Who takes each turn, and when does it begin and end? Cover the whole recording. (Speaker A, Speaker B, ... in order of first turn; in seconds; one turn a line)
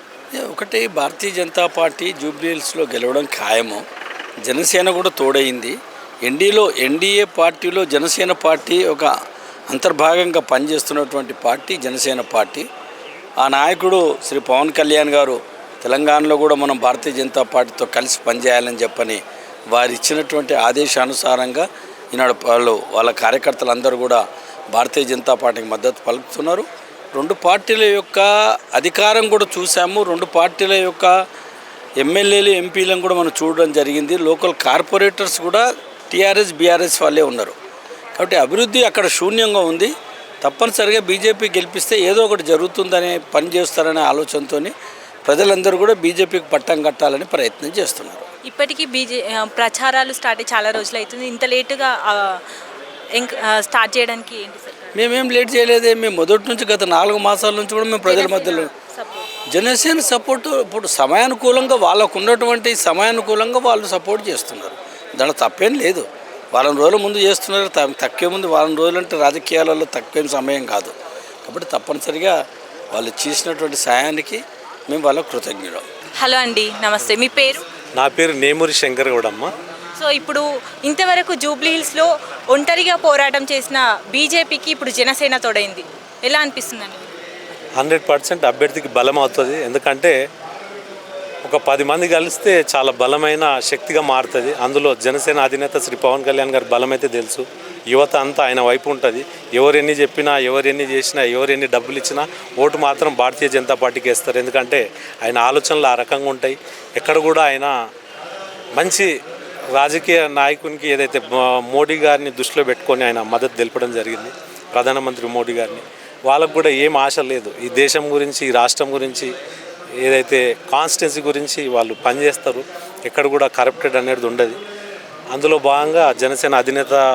Speaker A: 0.3-3.8
Speaker A: 4.4-9.1
Speaker A: 9.7-12.7
Speaker A: 13.4-31.1
Speaker A: 32.0-37.5
Speaker A: 38.1-44.7
Speaker A: 45.2-48.2
Speaker B: 48.5-52.4
Speaker B: 53.1-55.1
Speaker A: 54.9-58.7
Speaker B: 58.0-59.3
Speaker A: 59.5-70.9
Speaker A: 71.4-72.3
Speaker A: 72.9-75.8
Speaker B: 76.2-77.6
Speaker C: 78.0-79.5
Speaker B: 80.0-87.1
Speaker C: 87.8-90.1
Speaker C: 91.4-107.7
Speaker C: 108.8-109.1
Speaker C: 109.7-119.3
Speaker C: 120.0-124.6
Speaker C: 125.3-127.0